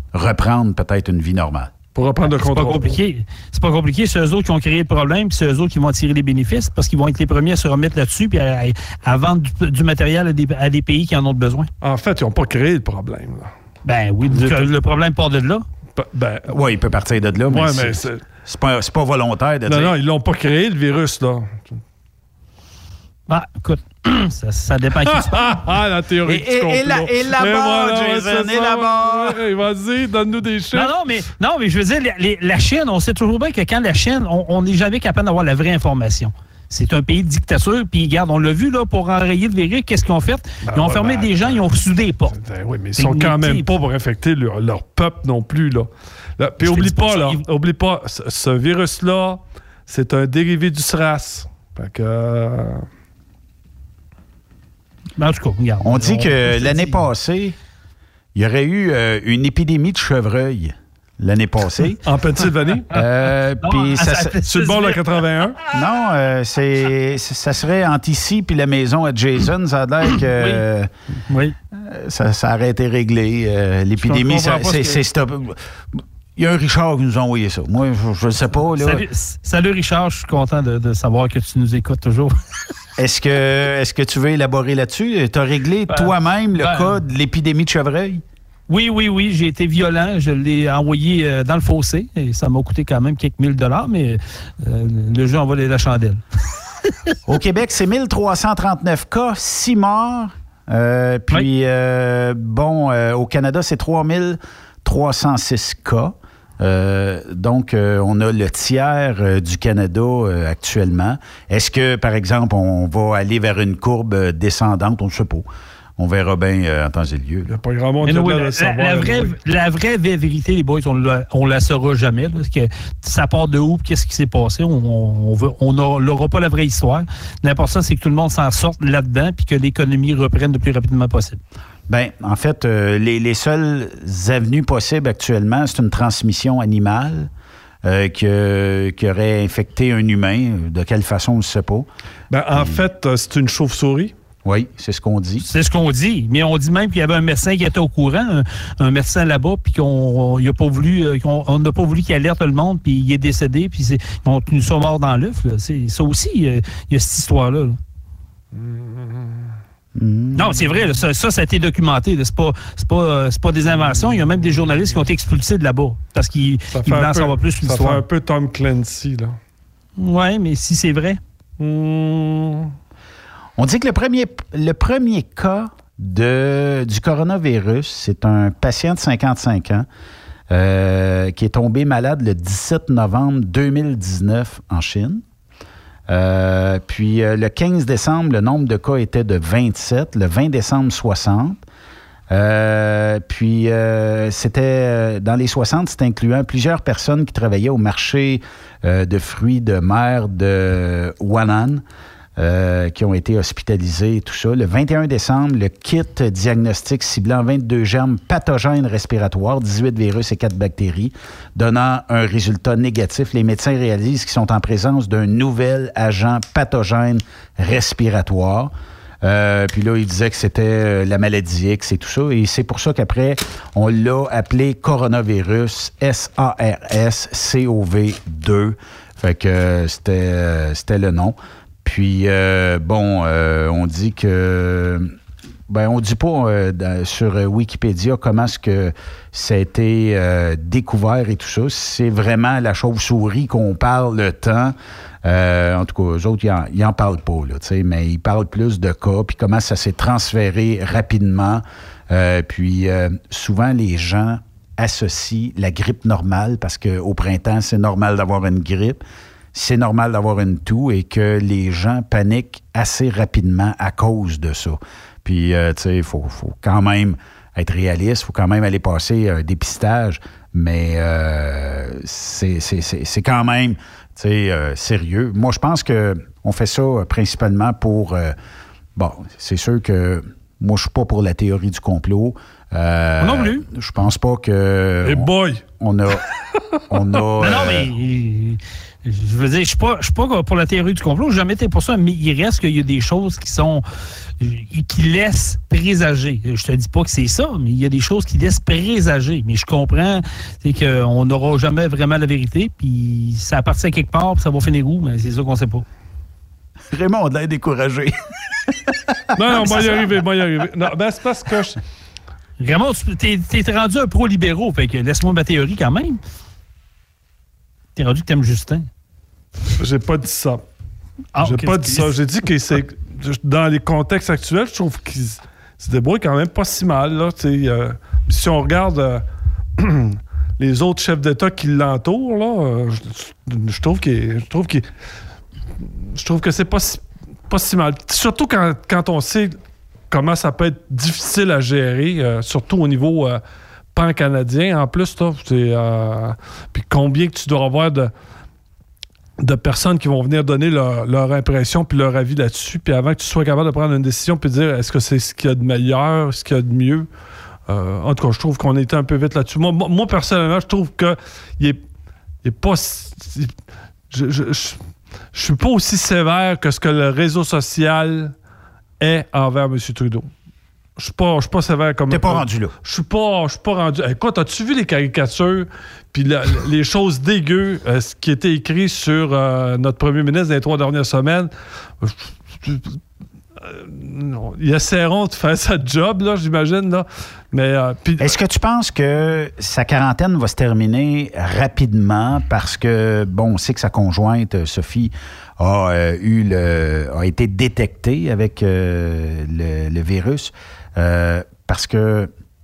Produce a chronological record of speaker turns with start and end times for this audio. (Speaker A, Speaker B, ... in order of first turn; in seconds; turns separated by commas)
Speaker A: 0.1-1.7, Speaker B: 1.9-3.0, Speaker C: 2.2-11.7, Speaker B: 11.8-13.5, Speaker C: 13.9-15.7, Speaker B: 14.3-14.7, Speaker B: 16.0-16.6, Speaker A: 16.5-19.9, Speaker B: 17.5-18.2, Speaker B: 19.7-21.8, Speaker C: 23.3-25.6, Speaker B: 25.1-30.9, Speaker A: 26.2-29.4, Speaker C: 30.7-42.4, Speaker B: 40.7-41.7, Speaker B: 42.3-52.9, Speaker C: 43.0-43.7, Speaker C: 46.6-47.4, Speaker C: 55.2-57.0, Speaker A: 55.8-57.6, Speaker A: 58.4-62.0, Speaker B: 62.0-62.9, Speaker A: 62.9-64.4, Speaker C: 63.6-65.0, Speaker B: 64.5-65.6, Speaker A: 65.7-70.9, Speaker C: 70.4-70.6, Speaker C: 71.3-71.5, Speaker A: 71.7-79.0, Speaker B: 74.0-75.0, Speaker C: 78.8-82.3, Speaker A: 83.0-88.2, Speaker C: 85.9-87.0, Speaker C: 88.7-96.2, Speaker A: 97.3-115.5, Speaker A: 116.0-117.5, Speaker B: 117.5-119.3, Speaker C: 118.0-131.4, Speaker A: 131.9-137.3, Speaker A: 137.8-141.9, Speaker B: 142.3-144.1, Speaker A: 142.5-142.8, Speaker A: 144.4-145.5, Speaker C: 145.4-157.8, Speaker B: 158.6-159.4, Speaker A: 160.0-160.6, Speaker C: 160.3-168.0, Speaker B: 166.8-169.4, Speaker C: 170.0-171.2, Speaker B: 171.6-172.7, Speaker A: 173.6-179.9, Speaker A: 180.5-185.2, Speaker A: 186.1-191.6, Speaker A: 192.3-201.8, Speaker A: 202.4-235.1, Speaker A: 235.7-259.0, Speaker A: 259.5-278.4, Speaker A: 279.0-286.2, Speaker C: 283.2-283.6, Speaker B: 285.1-285.6, Speaker A: 286.9-287.9, Speaker C: 287.4-293.8, Speaker C: 294.4-305.9, Speaker A: 306.9-308.1, Speaker A: 308.7-309.8, Speaker B: 309.4-311.8, Speaker C: 309.6-310.0, Speaker C: 312.6-316.2, Speaker C: 318.0-318.9, Speaker B: 319.8-320.6, Speaker C: 321.4-322.1, Speaker B: 321.4-329.2, Speaker B: 329.8-334.9, Speaker B: 336.1-339.6, Speaker B: 340.1-343.4, Speaker B: 343.9-348.1, Speaker B: 349.4-357.1, Speaker B: 357.7-361.8, Speaker B: 362.4-363.5, Speaker B: 364.1-364.8, Speaker B: 365.3-368.3, Speaker B: 369.0-370.3, Speaker B: 371.0-381.5, Speaker A: 372.1-372.7, Speaker B: 382.0-383.0, Speaker B: 383.6-388.4, Speaker A: 388.2-402.3